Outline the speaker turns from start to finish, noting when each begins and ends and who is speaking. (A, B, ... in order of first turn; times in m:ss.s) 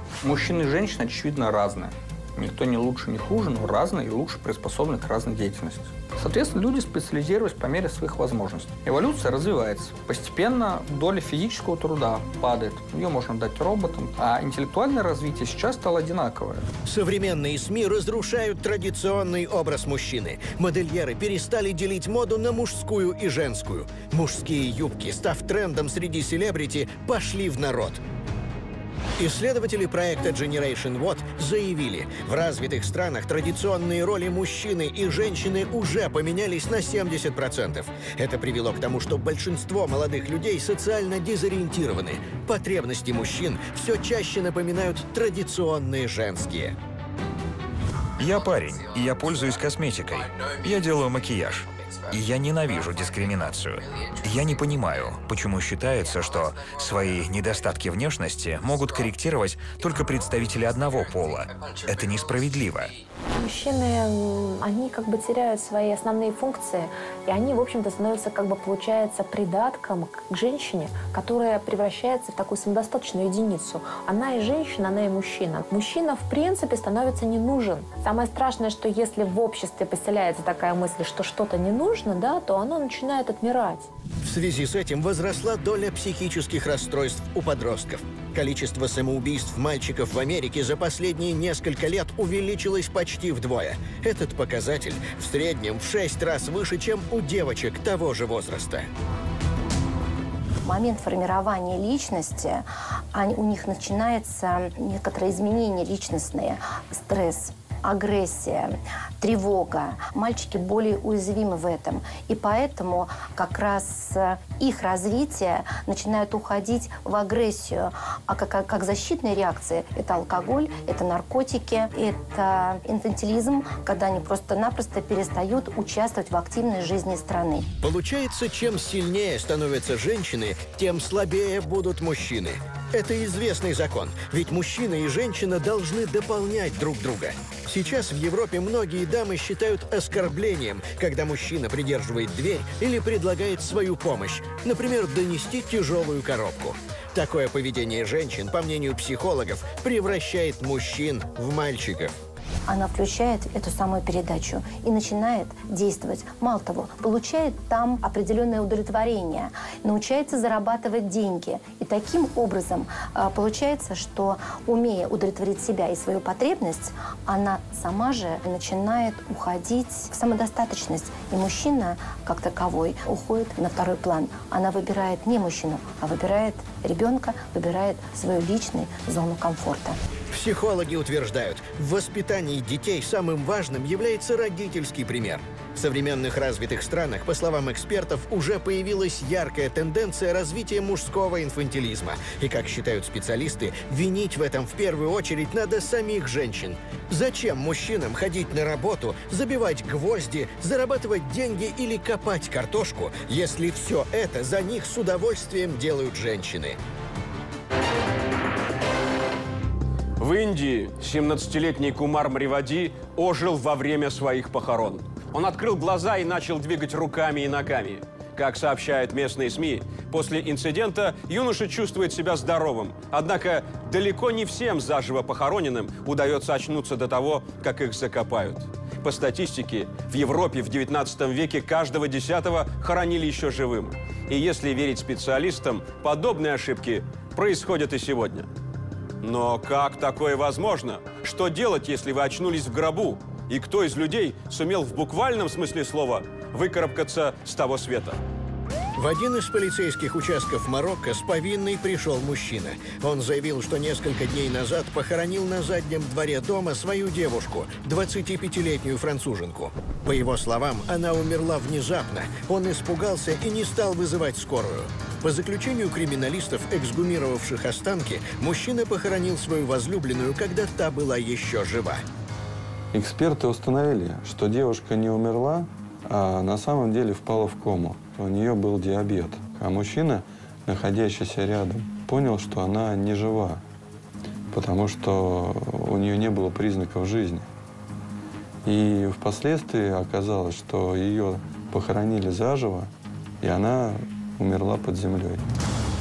0:00.2-0:16.7 A
0:16.9-0:28.0 B
0:29.2-0:46.8 B
0:48.2-1:02.9 C
1:03.4-1:23.9 D
1:24.2-1:38.9 B
1:40.6-2:07.7 E
2:07.8-2:32.2 B
2:32.7-3:00.0 E
3:00.3-3:26.8 B
3:30.2-3:58.5 F
3:59.2-4:08.2 F
4:09.0-4:32.0 B
4:32.9-4:43.6 G
4:44.5-4:47.5 G
4:48.6-4:52.9 G
4:53.4-4:55.4 G